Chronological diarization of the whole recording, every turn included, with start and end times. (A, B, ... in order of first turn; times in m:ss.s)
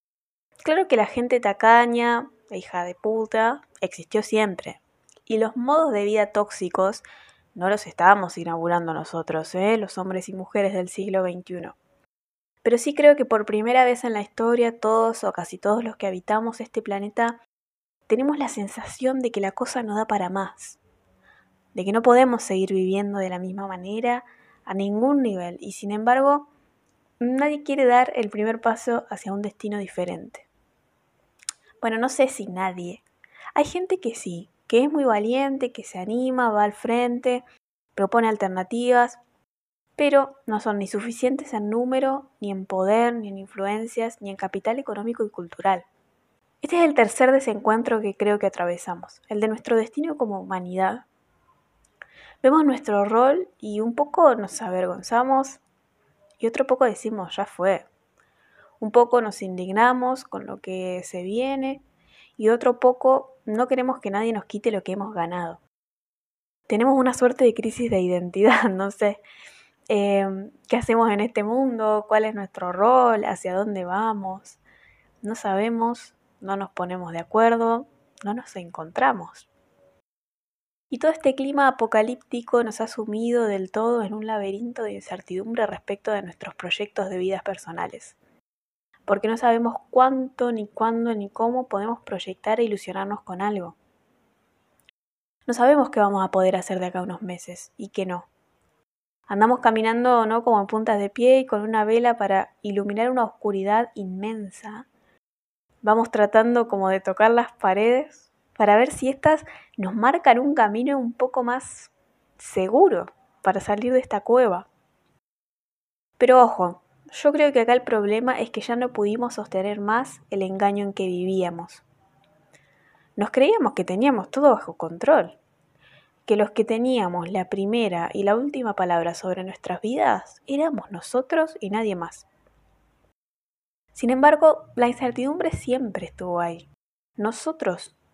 0:00.6-0:11.8 A
0:12.6-0:17.4 A
0:18.1-0:20.8 A
0:21.7-0:26.5 A
0:27.2-0:30.5 A
0:31.8-0:33.0 A
0:33.6-0:37.4 A
0:38.0-0:39.2 A
0:40.0-0:45.9 A
0:46.6-0:51.1 A
0:52.4-0:55.6 A
0:56.4-0:57.9 A
0:58.8-1:01.8 A
1:02.4-1:05.6 A
1:06.7-1:09.2 A
1:09.9-1:14.6 A
1:15.2-1:19.5 A
1:20.9-1:28.2 A
1:29.1-1:33.8 A
1:35.5-1:38.3 A
1:39.3-1:44.9 A
1:45.8-1:54.7 A
1:56.2-2:01.8 A
2:03.2-2:05.4 A
2:06.3-2:12.3 A
2:13.9-2:18.0 A